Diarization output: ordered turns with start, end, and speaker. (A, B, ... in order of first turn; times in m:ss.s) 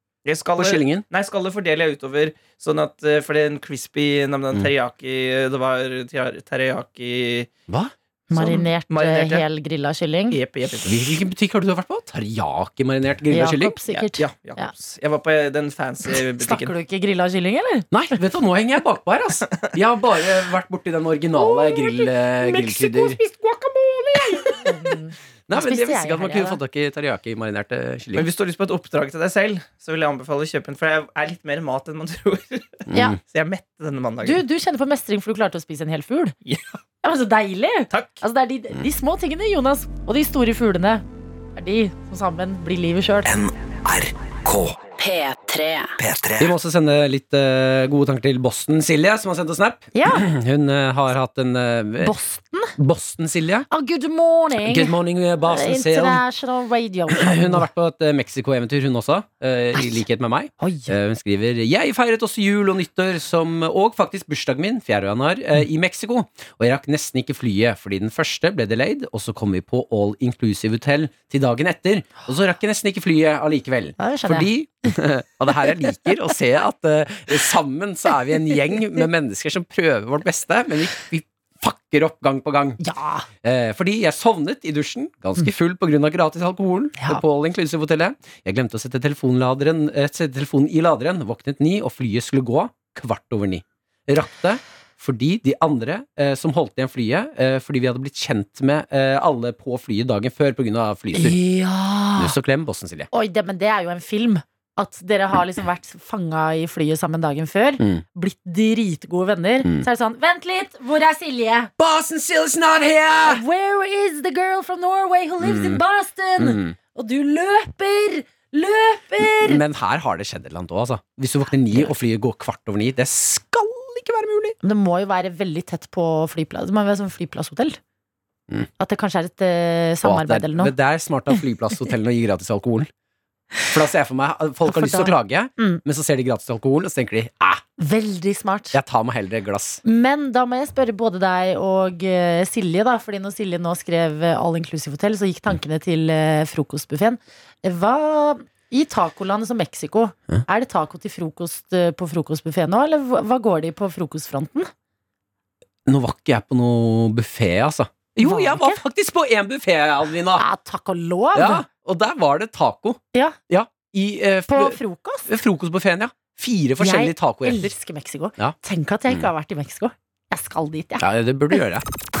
0:00.2-0:07.5 A
0:00.6-0:01.0 B
0:07.7-0:07.9 B
0:08.3-0:10.4 C
0:08.3-0:09.4 A
0:10.3-0:11.1 A
0:10.8-0:13.8 B
0:13.3-0:14.7 C
0:13.9-0:16.7 A
0:16.4-0:18.2 C
0:17.9-0:23.2 B
0:21.4-0:23.1 C
0:23.4-0:24.5 A
0:24.5-0:26.6 C
0:25.5-0:28.3 B
0:28.1-0:34.4 A
0:32.9-0:33.2 B
0:34.2-0:36.3 C
0:36.4-0:36.8 A
0:37.0-0:41.0 C
0:37.9-0:38.2 A
0:41.5-0:43.3 C
0:43.2-0:44.9 D
0:45.0-0:45.9 C
0:46.0-0:46.5 D
0:46.4-0:52.1 B
0:49.9-0:50.3 C
0:52.0-0:52.7 C
0:52.8-0:53.7 B
0:53.7-0:57.7 C
0:54.6-0:56.2 B
0:57.1-1:22.8 B
0:59.7-1:00.0 C
1:00.6-1:00.9 C
1:14.0-1:14.9 C
1:22.8-1:23.2 C
1:23.4-1:41.4 B
1:27.0-1:27.2 C
1:41.1-1:42.3 C
1:42.2-1:43.1 B
1:43.1-1:51.7 C
1:51.8-1:53.4 B
1:53.2-1:59.6 C
1:55.4-1:55.8 B
1:56.4-1:56.8 B
1:59.2-2:04.6 B
2:04.6-2:07.8 C
2:08.8-2:10.7 C
2:10.0-2:12.9 B
2:13.6-2:17.6 B
2:14.6-2:15.8 C
2:17.8-2:18.8 C
2:18.7-2:19.8 B
2:19.8-2:34.7 C
2:35.8-2:40.4 B
2:38.2-2:38.8 C
2:40.4-2:41.6 C
2:41.3-2:47.7 B
2:44.5-2:45.3 C
2:46.8-2:51.0 C
2:51.0-2:51.8 B